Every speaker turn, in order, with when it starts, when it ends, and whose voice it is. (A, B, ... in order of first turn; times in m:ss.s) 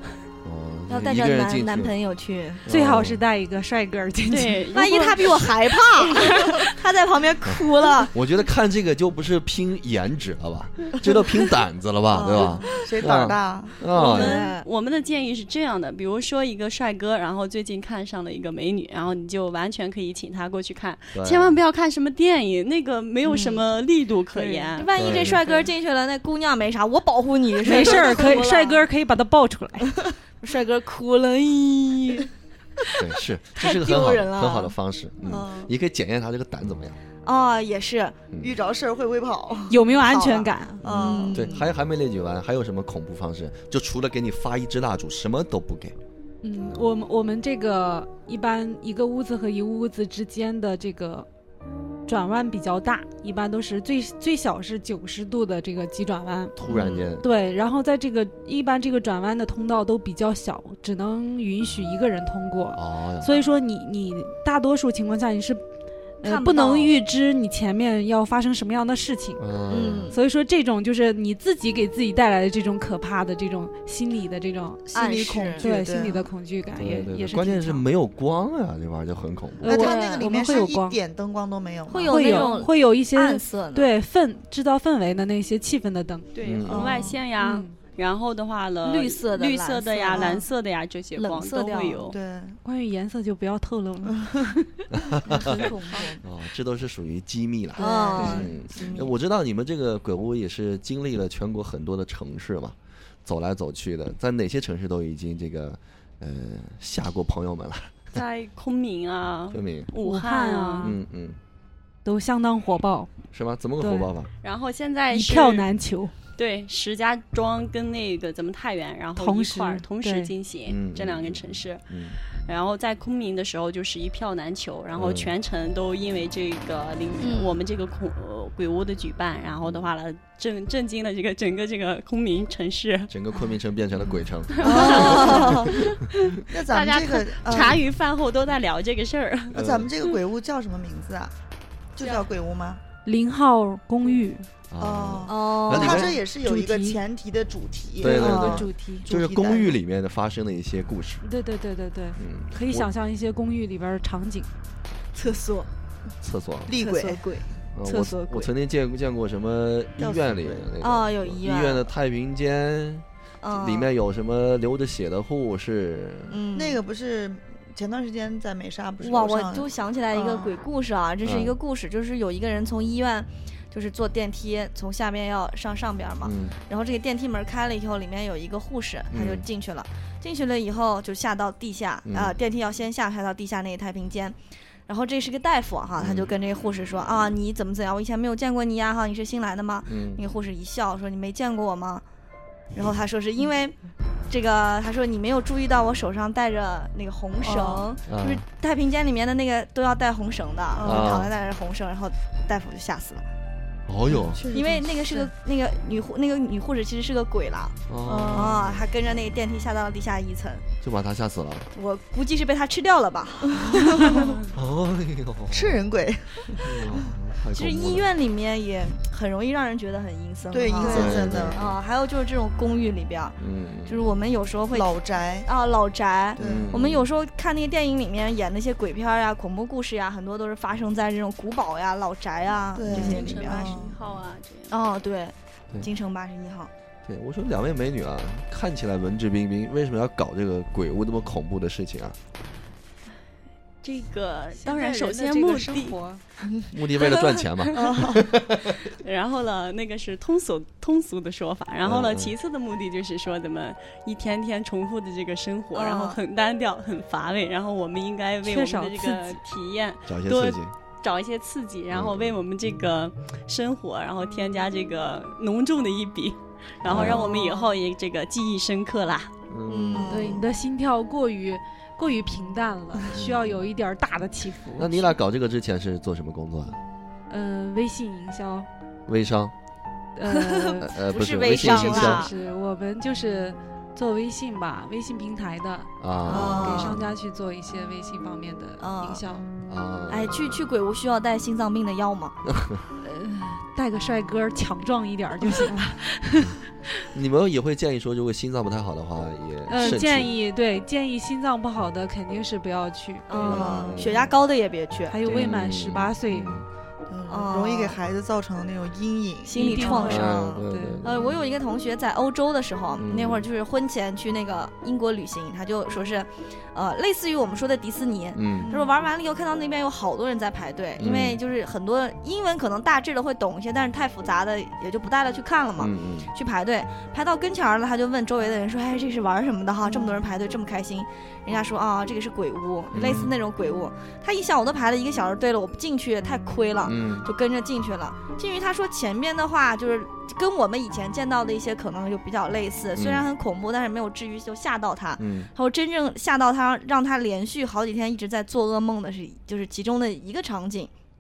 0:00.4-0:01.9 A
0:00.9-0:02.6 B
0:02.6-0:03.2 A
0:02.7-0:04.7 C
0:04.3-0:06.5 D
0:04.7-0:08.1 B
0:07.4-0:14.5 A
0:12.1-0:13.8 E
0:13.9-0:14.6 B
0:13.9-0:25.3 D
0:21.1-0:21.6 A
0:23.2-0:23.6 B
0:24.3-0:24.8 C
0:24.7-0:28.8 B
0:25.0-0:25.4 A
0:27.6-0:29.9 C
0:30.4-0:32.3 B
0:33.0-0:37.0 A
0:33.5-0:34.7 B
0:35.2-0:35.7 E
0:37.2-0:38.2 B
0:38.3-0:38.6 A
0:38.4-0:39.8 E
0:39.7-0:40.8 C
0:40.0-0:41.5 B
0:40.8-0:41.7 E
0:40.8-0:46.0 A
0:46.4-0:51.3 C
0:52.1-0:56.5 C
0:56.6-0:57.3 A
0:56.7-0:57.1 B
0:57.2-1:05.6 C
1:02.7-1:03.4 A
1:06.2-1:09.4 C
1:06.2-1:06.9 B
1:09.4-1:10.2 A
1:09.7-1:10.2 B
1:10.1-1:14.8 C
1:14.9-1:16.3 E
1:14.9-1:15.7 B
1:15.6-1:17.8 C
1:16.7-1:19.8 A
1:19.6-1:21.0 C
1:19.6-1:22.3 E
1:19.7-1:20.3 B
1:21.9-1:23.9 B
1:22.1-1:26.3 C
1:26.3-1:32.2 D
1:26.4-1:27.0 A
1:26.7-1:27.2 E
1:26.8-1:27.1 B
1:27.4-1:27.7 C
1:28.8-1:30.4 B
1:30.1-1:30.4 E
1:31.2-1:32.1 B
1:32.1-1:32.6 E
1:32.6-1:34.9 C
1:34.9-1:48.2 A
1:35.3-1:36.2 B
1:35.3-1:35.6 E
1:35.4-1:36.0 C
1:37.8-1:39.1 B
1:37.8-1:38.5 E
1:38.2-1:38.4 C
1:48.1-1:50.9 D
1:49.5-1:49.9 A
1:50.0-1:51.0 C
1:50.8-1:51.4 A
1:52.0-1:53.1 C
1:53.3-1:54.3 A
1:53.8-1:54.1 C
1:54.4-1:55.7 D
1:55.1-1:56.1 C
1:56.4-2:13.1 D
1:59.2-2:00.3 C
2:00.6-2:02.2 A
2:05.0-2:05.3 A
2:07.2-2:07.6 B
2:09.6-2:09.9 A
2:13.1-2:16.4 A
2:14.5-2:19.6 D
2:14.6-2:15.7 E
2:14.6-2:15.6 B
2:16.5-2:17.8 E
2:19.5-2:19.9 A
2:19.5-2:21.3 E
2:21.9-2:22.8 E
2:23.0-2:24.5 C
2:24.7-2:26.1 A
2:24.8-2:29.8 E
2:25.3-2:26.1 B
2:26.4-2:27.0 C
2:28.0-2:31.2 A
2:28.0-2:29.1 C
2:28.2-2:28.5 B
2:31.2-2:34.5 C
2:32.2-2:32.9 A
2:35.1-2:35.7 B
2:36.2-2:36.7 A
2:36.6-2:37.3 E
2:36.7-2:37.5 B
2:37.7-2:46.4 A
2:37.8-2:38.5 C
2:40.0-2:40.6 E
2:40.8-2:41.9 B
2:43.4-2:43.9 B
2:46.3-2:46.8 B
2:46.5-2:50.6 E
2:49.0-3:04.4 B
2:51.2-2:51.6 A
2:56.2-2:56.6 A
2:59.1-2:59.4 A
3:02.0-3:02.4 A
3:04.9-3:12.0 B
3:06.0-3:06.3 A
3:09.9-3:10.2 A
3:12.7-3:13.8 B
3:14.3-3:23.2 B
3:17.4-3:17.9 E
3:18.0-3:18.4 A
3:20.7-3:21.3 E
3:20.8-3:21.3 A
3:23.9-3:24.4 A
3:24.1-3:25.3 E
3:24.5-3:27.8 B
3:27.9-3:28.8 A
3:28.0-3:28.6 E
3:28.3-3:30.7 B
3:30.8-3:31.7 A
3:31.7-3:34.4 B
3:33.5-3:34.2 E
3:34.5-3:35.8 A
3:35.5-3:37.0 E
3:36.6-3:38.1 A
3:37.5-3:44.9 B
3:40.5-3:41.6 E
3:40.8-3:41.8 A
3:43.4-3:44.0 A
3:44.7-3:45.5 E
3:45.4-3:53.8 B
3:46.4-3:46.8 E
3:46.4-3:47.1 A
3:52.7-3:53.9 E
3:52.9-3:53.3 A
3:52.9-3:54.7 D
3:54.7-3:56.7 B
3:57.0-4:02.2 A
4:03.8-4:06.0 D
4:04.6-4:06.2 C
4:06.7-4:08.9 A
4:07.7-4:08.3 E
4:09.0-4:29.3 D
4:11.8-4:12.3 A
4:15.7-4:16.2 B
4:18.4-4:19.4 C
4:20.1-4:20.7 A
4:21.9-4:22.3 A
4:26.8-4:27.3 A
4:27.1-4:27.6 B
4:29.5-4:30.4 A
4:29.7-4:30.4 B
4:30.0-4:35.0 C
4:33.1-4:33.6 A
4:34.8-4:36.8 A
4:37.3-4:38.7 C
4:39.1-4:39.5 A
4:40.2-4:49.5 C
4:40.3-4:42.3 B
4:40.8-4:42.3 A
4:46.0-4:47.1 A
4:46.2-4:47.0 B
4:48.8-4:49.2 B
4:49.7-4:50.6 A
4:50.1-4:52.4 B
4:52.4-4:52.8 A
4:53.0-4:57.1 C
4:57.1-5:00.3 A
4:59.7-5:03.6 C
5:03.3-5:05.2 B
5:03.3-5:04.3 A
5:03.5-5:04.1 E
5:05.1-5:06.6 C
5:05.2-5:06.7 A
5:07.1-5:10.1 E
5:07.3-5:08.0 B
5:09.4-5:50.9 B
5:09.6-5:11.0 C
5:09.8-5:11.4 A
5:13.0-5:13.4 A
5:18.3-5:18.7 A
5:18.6-5:18.9 E
5:21.0-5:21.4 A
5:25.8-5:26.3 A
5:32.9-5:33.3 A
5:36.8-5:37.3 A
5:42.9-5:43.3 A
5:45.2-5:45.5 A